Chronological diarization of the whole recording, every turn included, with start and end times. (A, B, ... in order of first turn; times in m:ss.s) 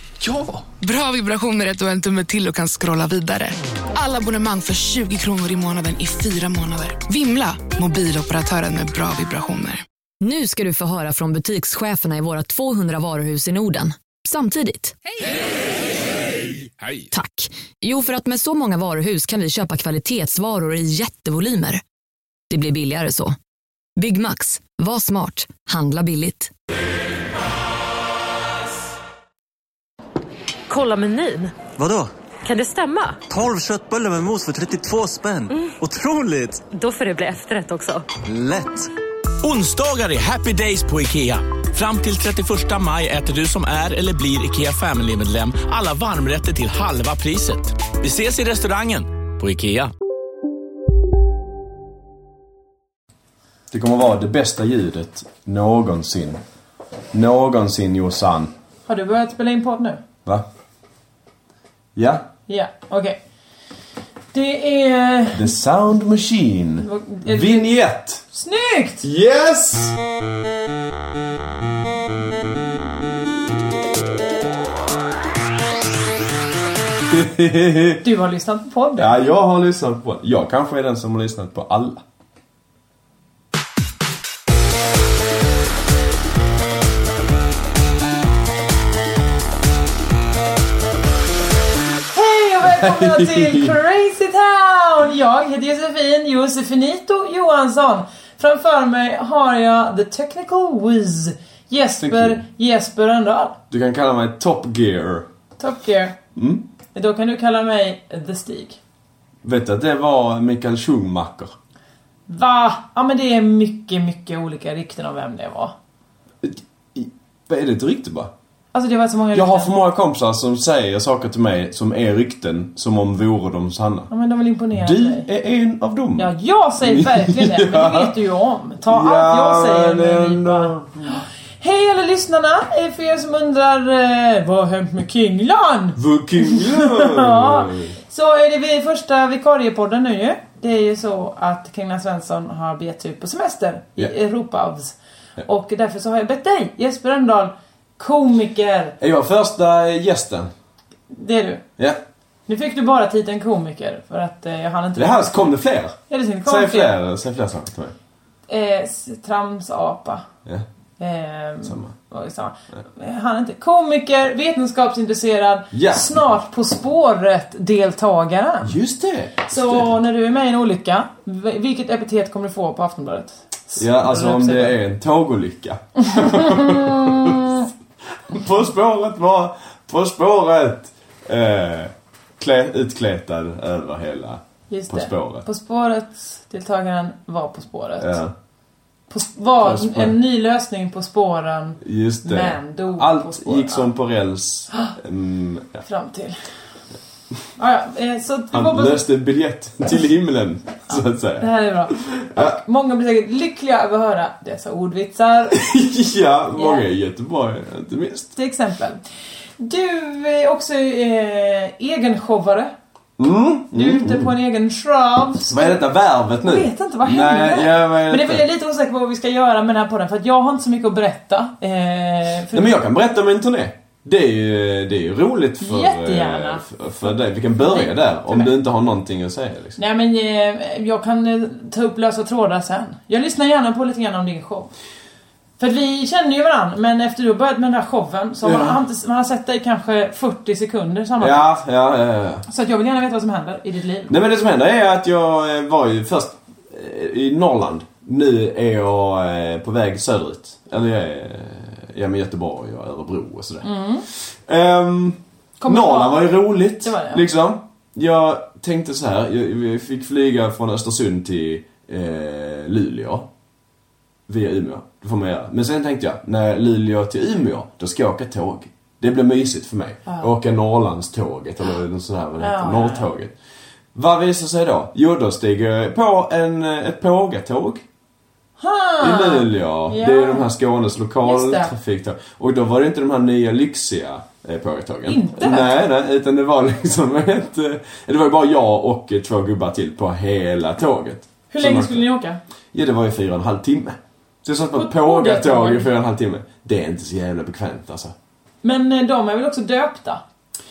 0:00.8-0:09.8 A
0:10.2-0:14.9 B
0:17.1-0:21.8 B
0:22.5-0:23.3 B
0:24.0-0:26.5 B
0:30.7-0:31.6 C
0:31.7-0:32.1 D
0:32.4-0:33.2 C
0:33.3-0:36.6 D
0:36.7-0:38.1 C
0:38.2-0:38.9 D
0:39.4-0:49.9 E
0:53.7-0:56.4 F
0:57.1-0:58.5 F
0:58.8-1:00.0 G
1:02.0-1:02.2 F
1:02.5-1:03.2 G
1:04.3-1:05.5 G
1:05.3-1:08.2 F
1:06.8-1:07.8 G
1:08.3-1:09.0 G
1:09.0-1:10.0 F
1:17.1-1:18.0 F
1:18.0-1:19.2 G
1:19.0-1:22.0 F
1:32.1-1:43.6 G
1:32.6-1:33.7 F
1:42.0-1:42.4 F
1:43.7-1:45.2 F
1:45.6-1:46.2 G
1:46.4-1:46.6 F
1:46.9-1:48.8 G
1:49.4-1:51.5 F
1:52.3-1:55.7 G
1:56.4-1:58.3 F
1:58.7-1:59.7 G
1:59.3-2:04.1 F
2:04.1-2:05.3 G
2:04.7-2:08.1 F
2:06.2-2:28.9 G
2:08.8-2:11.2 F
2:16.0-2:17.9 F
2:29.0-2:30.5 F
2:31.1-2:31.6 G
2:32.5-2:35.6 G
2:35.0-2:37.9 F
2:36.1-2:36.9 G
2:38.5-2:40.2 G
2:41.0-2:48.7 G
2:41.6-2:41.9 F
2:45.7-2:46.3 F
2:48.6-2:49.9 F
2:49.5-2:54.8 G
2:53.8-2:57.5 F
2:56.1-2:57.6 G
2:58.3-3:05.4 F
3:04.7-3:08.2 G
3:08.0-3:08.3 F
3:09.1-3:13.9 G
3:09.6-3:10.1 F
3:11.8-3:15.8 F
3:15.8-3:16.4 G
3:17.6-3:19.0 G
3:18.5-3:22.6 F
3:20.9-3:25.6 G
3:25.5-3:28.3 F
3:26.5-3:26.8 G
3:28.4-3:29.0 G
3:29.6-3:32.7 G
3:33.2-3:34.3 F
3:33.7-3:35.8 G
3:35.5-3:38.4 F
3:36.4-3:42.8 G
3:42.5-3:49.8 F
3:45.6-3:48.5 G
3:49.8-3:54.7 G
3:55.6-4:01.6 G
3:58.4-3:58.8 F
4:01.2-4:02.4 F
4:02.5-4:04.2 G
4:04.1-4:23.3 F
4:13.6-4:14.0 G
4:15.6-4:17.2 G
4:24.3-4:33.3 F
4:32.4-4:33.1 G
4:33.9-4:37.8 F
4:38.6-4:40.5 G
4:39.0-4:52.0 F
4:41.2-4:41.7 G
4:45.1-4:45.7 G
4:51.5-4:52.4 G
4:52.7-4:58.1 F
4:54.7-4:55.9 G
4:58.6-5:00.2 G